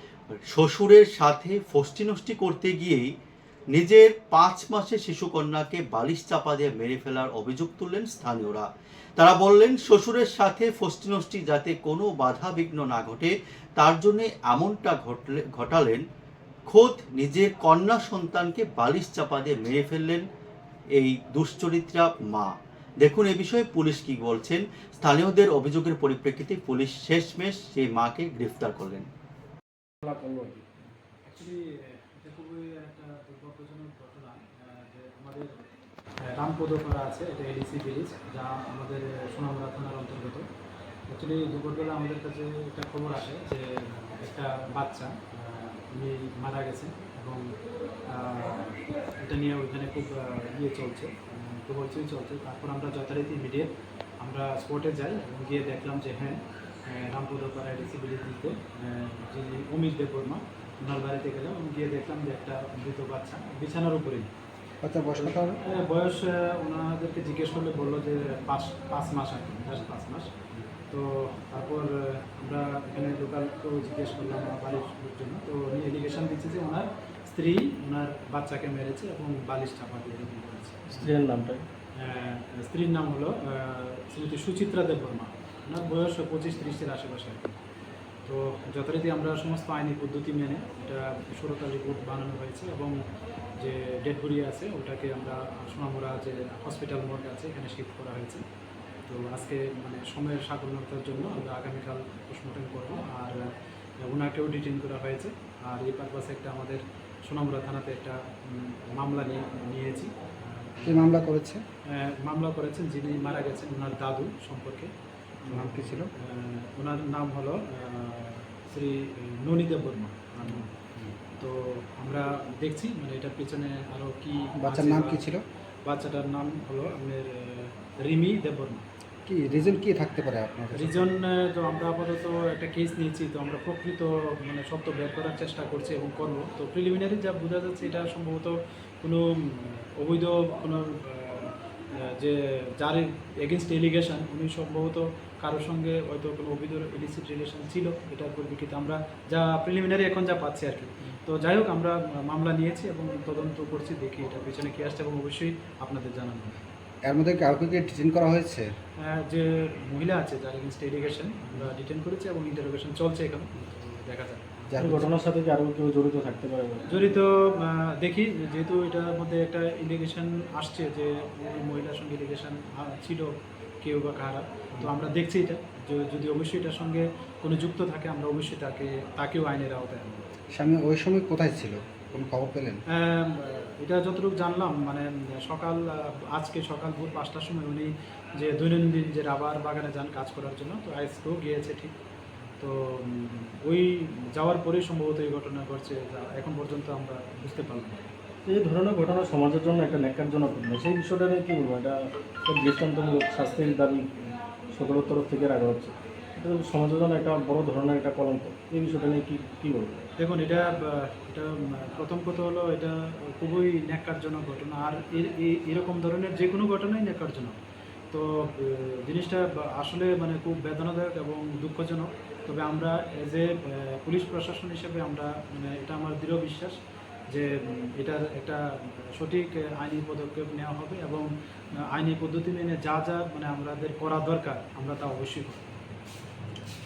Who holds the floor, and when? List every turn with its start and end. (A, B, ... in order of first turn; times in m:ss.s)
0:00.5-0:03.1 A
0:03.7-0:16.0 A
0:16.7-0:20.2 A
0:21.0-0:29.1 A
0:30.0-0:30.7 B
0:31.2-0:35.6 C
0:36.2-0:40.5 C
0:41.1-1:04.3 C
1:04.8-1:05.6 D
1:05.2-1:21.1 C
1:20.9-1:21.6 B
1:22.0-1:27.6 C
1:28.2-1:33.0 C
1:33.6-1:38.4 C
1:39.1-1:43.5 C
1:44.0-1:51.2 C
1:50.8-1:51.6 D
1:51.9-1:54.9 C
1:55.4-2:00.7 C
1:55.5-1:56.1 D
2:00.4-2:01.2 D
2:01.4-2:05.3 C
2:04.6-2:05.4 D
2:05.8-2:08.8 C
2:09.3-2:11.1 D
2:10.7-2:36.6 C
2:37.1-2:38.8 D
2:39.0-2:45.1 C
2:44.7-2:45.0 D
2:44.8-2:47.1 B
2:46.9-3:00.3 C
3:00.5-3:02.8 D
3:02.9-3:12.0 C
3:12.6-3:18.1 C
3:18.5-3:30.1 B
3:30.2-3:37.6 C
3:38.1-3:46.8 C
3:47.3-3:55.7 C